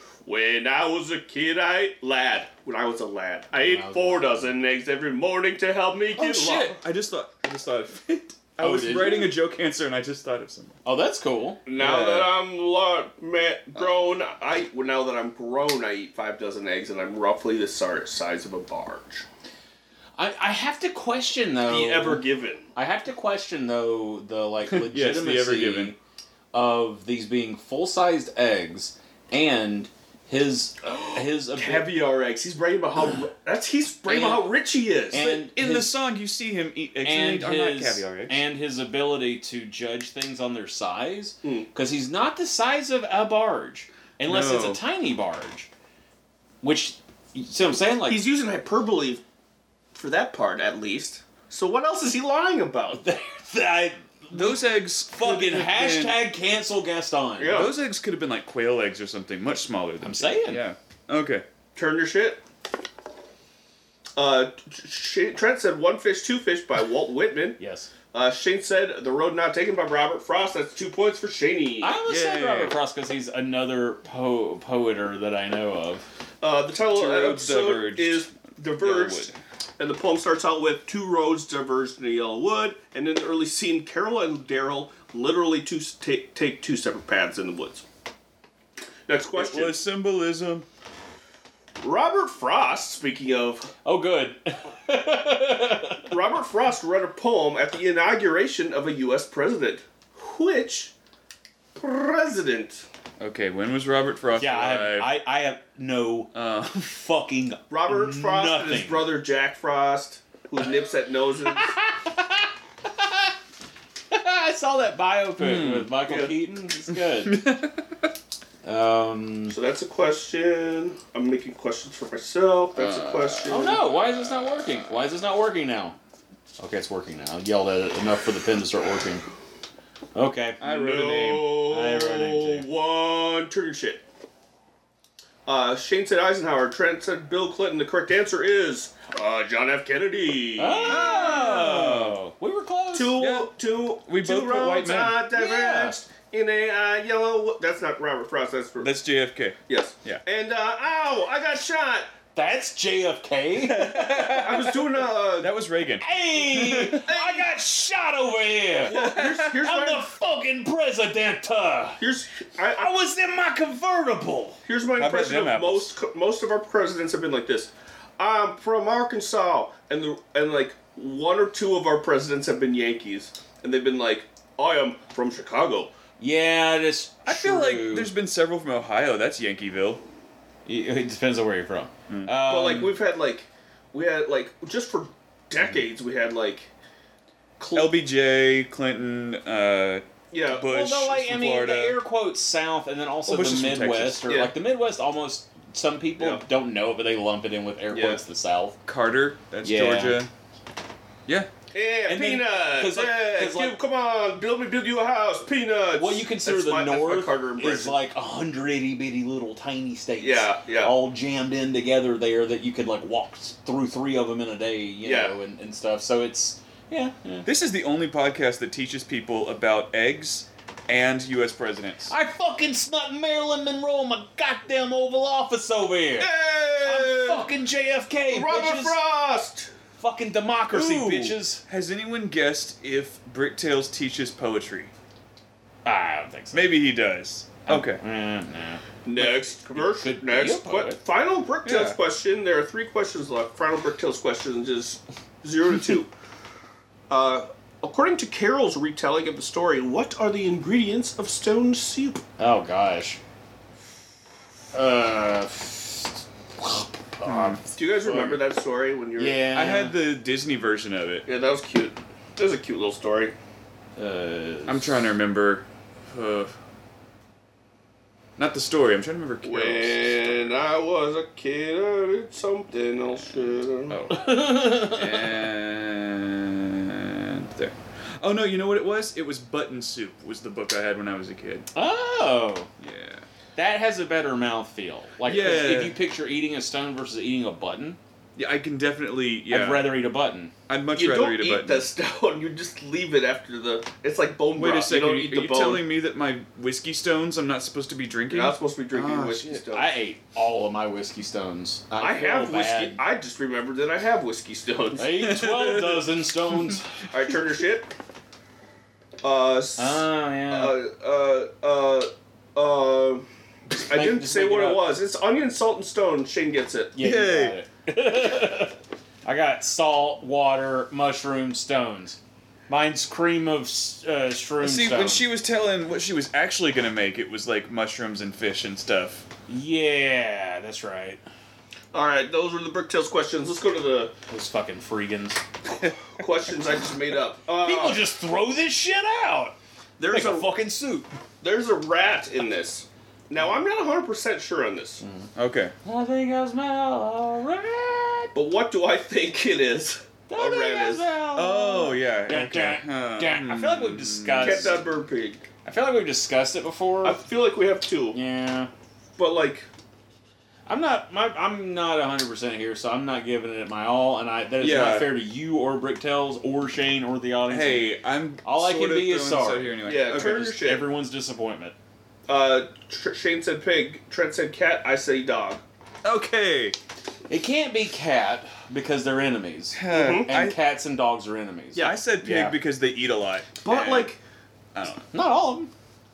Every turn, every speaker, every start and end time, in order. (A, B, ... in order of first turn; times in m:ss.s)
0:00.2-0:06.8 A
0:03.6-0:04.5 B
0:06.1-0:10.8 C
0:08.6-0:09.3 B
0:10.8-0:11.6 B
0:11.7-0:19.3 A
0:11.8-0:12.3 C
0:13.8-0:14.0 C
0:20.2-0:26.0 B
0:21.7-0:22.7 A
0:24.7-0:26.0 C
0:26.5-0:31.9 B
0:31.5-0:35.4 A
0:34.1-0:34.5 B
0:35.1-0:35.9 B
0:35.2-0:38.4 C
0:37.0-0:45.7 B
0:41.4-0:41.7 A
0:44.2-0:44.8 C
0:46.6-0:48.3 B
0:48.1-0:49.2 A
0:49.9-0:53.0 A
0:52.9-0:57.7 B
0:54.3-0:56.2 C
0:57.4-0:57.8 A
0:57.5-1:01.4 C
1:00.0-1:00.6 B
1:01.8-1:02.4 A
1:04.2-1:07.6 A
1:07.6-1:07.9 B
1:08.1-1:12.0 A
1:11.8-1:16.1 B
1:12.1-1:12.8 C
1:16.4-1:27.8 A
1:16.9-1:19.3 C
1:29.1-1:29.8 A
1:29.3-1:30.7 C
1:31.8-1:33.7 A
1:33.8-1:36.1 B
1:36.1-1:40.9 A
1:41.8-1:42.9 A
1:43.2-1:45.2 C
1:44.4-1:46.3 B
1:46.3-1:46.9 C
1:46.8-1:49.2 B
1:47.7-1:51.7 A
1:51.6-1:53.3 B
1:54.1-1:57.4 B
1:55.4-1:55.9 C
1:56.1-1:56.3 A
1:57.2-1:58.0 C
1:58.6-1:59.6 B
1:59.5-2:03.8 A
2:02.8-2:04.9 C
2:03.5-2:06.0 B
2:06.6-2:09.2 B
2:10.2-2:10.6 B
2:10.6-2:11.7 C
2:10.6-2:14.0 A
2:11.6-2:12.7 B
2:15.5-2:21.5 A
2:20.6-2:23.2 B
2:20.9-2:22.2 C
2:22.9-2:28.9 A
2:23.2-2:23.5 C
2:24.0-2:25.2 C
2:25.3-2:26.0 B
2:28.8-2:30.2 C
2:29.7-2:32.1 A
2:32.4-2:34.5 B
2:33.6-2:37.1 C
2:34.4-2:35.5 A
2:36.0-2:42.0 B
2:37.1-2:37.5 A
2:38.8-2:40.1 A
2:38.9-2:39.6 C
2:42.0-2:42.9 A
2:42.7-2:44.6 B
2:44.6-2:55.9 A
2:45.0-2:46.0 C
2:56.2-2:58.1 B
2:57.2-3:00.0 C
3:00.7-3:02.9 B
3:02.1-3:02.4 C
3:02.4-3:06.7 A
3:07.6-3:08.0 A
3:07.7-3:12.0 C
3:10.3-3:10.7 A
3:10.5-3:18.8 B
3:13.3-3:14.3 C
3:14.3-3:14.5 A
3:16.2-3:16.4 A
3:17.9-3:18.2 A
3:18.8-3:20.3 C
3:19.6-3:20.2 B
3:21.7-3:28.0 A
3:22.1-3:23.8 B
3:26.0-3:37.5 B
3:30.2-3:31.0 A
3:35.0-3:35.4 A
3:37.4-3:42.1 C
3:42.1-3:49.0 B
3:46.2-3:47.5 A
3:48.3-3:49.7 A
3:50.0-3:51.6 B
3:50.7-3:54.9 C
3:55.8-3:56.8 B
3:56.5-3:58.0 C
3:57.6-4:01.0 B
3:59.0-4:06.1 A
4:01.6-4:02.0 C
4:07.1-4:12.2 A
4:12.4-4:13.2 B
4:14.7-4:18.4 B
4:17.2-4:17.6 C
4:17.8-4:19.4 A
4:19.2-4:20.0 B
4:19.5-4:21.3 C
4:21.3-4:23.4 A
4:24.0-4:25.0 B
4:24.7-4:26.5 C
4:28.4-4:30.6 C
4:29.4-4:34.1 A
4:33.9-4:35.3 B
4:34.6-4:41.7 C
4:41.8-4:42.7 B
4:42.8-4:43.2 C
4:43.6-4:48.0 B
4:45.2-4:46.0 C
4:48.4-4:50.0 C
4:49.5-4:50.5 B
4:50.7-4:51.9 C
4:50.9-4:55.9 A
4:54.6-4:59.6 C
4:58.3-5:00.0 A
4:59.7-5:03.0 B
5:02.0-5:05.3 A
5:05.0-5:06.9 B
5:05.2-5:06.1 C
5:07.1-5:07.9 A
5:09.2-5:17.0 A
5:09.8-5:10.8 B
5:13.7-5:15.0 B
5:17.0-5:22.2 B
5:17.0-5:17.6 C
5:22.7-5:25.3 B
5:24.6-5:29.3 C
5:29.5-5:31.2 B
5:31.9-5:34.1 A
5:34.3-5:35.4 B
5:36.2-5:38.1 A
5:37.6-5:39.6 B
5:40.0-5:40.6 A
5:40.1-5:41.1 B
5:41.4-5:45.0 A
5:45.0-5:45.3 B
5:45.4-5:45.7 C
5:45.8-5:48.4 B
5:48.3-5:51.1 A
5:50.3-5:54.8 B
5:51.3-5:54.8 C
5:54.4-5:55.4 A
5:55.6-5:57.2 B
5:57.0-5:58.2 A
5:58.1-5:58.7 B
5:59.2-5:59.7 A
6:00.7-6:11.8 B
6:04.6-6:05.2 C
6:07.5-6:10.6 C
6:09.8-6:10.9 A
6:12.3-6:15.6 A
6:16.0-6:16.8 C
6:17.3-6:22.6 B
6:19.7-6:20.6 C
6:19.9-6:20.3 A
6:21.8-6:24.1 C
6:23.6-6:24.2 A
6:24.8-6:25.1 C
6:25.1-6:25.7 B